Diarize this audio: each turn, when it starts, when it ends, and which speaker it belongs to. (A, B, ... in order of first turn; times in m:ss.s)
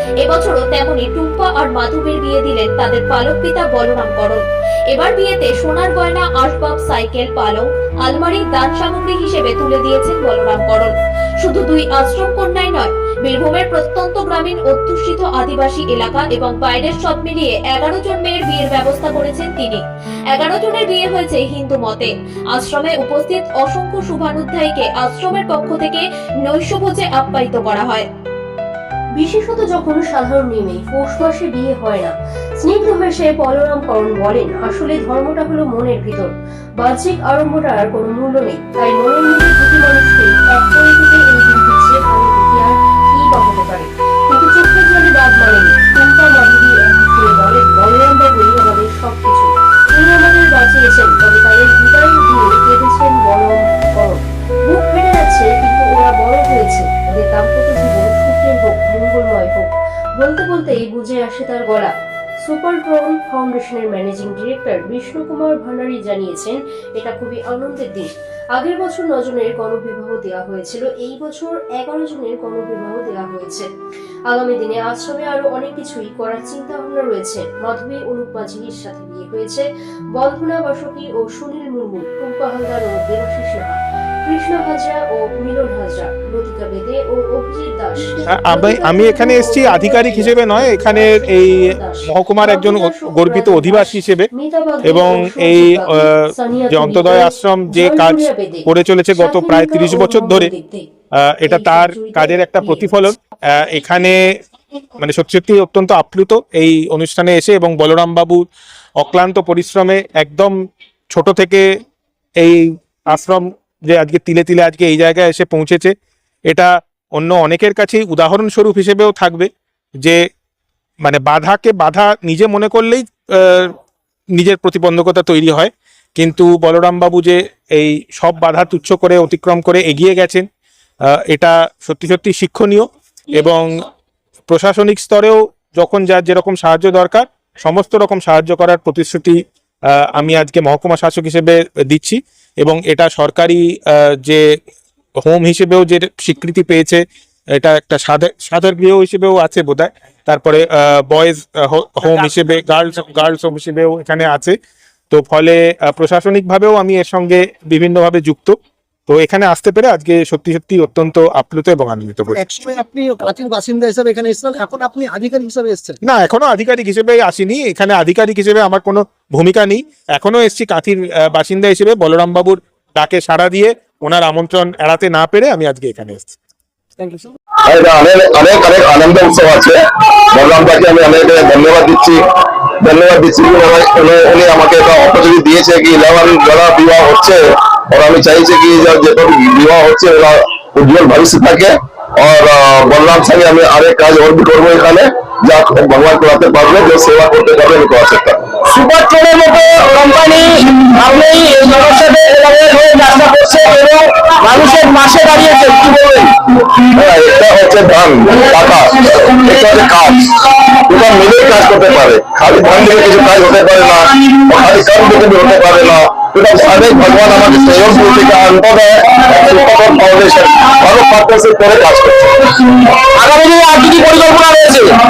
0:00.2-0:19.8 A
0:20.3-0:28.0 A
0:29.2-1:13.7 B
1:14.3-1:40.8 B
1:28.3-1:34.3 C
1:34.8-1:40.5 C
1:41.2-1:44.3 C
1:41.5-1:42.9 B
1:45.0-1:48.4 C
1:49.0-1:50.5 C
1:51.1-1:51.8 C
1:52.4-1:55.9 C
1:56.5-1:59.5 C
2:01.0-2:03.7 C
2:04.4-2:10.4 C
2:11.1-2:13.8 C
2:14.5-2:19.4 C
2:19.9-2:24.4 C
2:25.2-2:27.0 C
2:27.6-2:34.6 C
2:35.1-2:38.6 C
2:39.1-2:42.4 C
2:42.4-2:46.0 D
2:46.0-2:56.3 C
2:57.7-2:59.8 E
3:00.3-3:02.2 E
3:02.8-3:07.4 E
3:07.9-3:18.4 E
3:18.7-3:26.3 F
3:26.9-3:42.4 E
3:43.2-3:45.0 F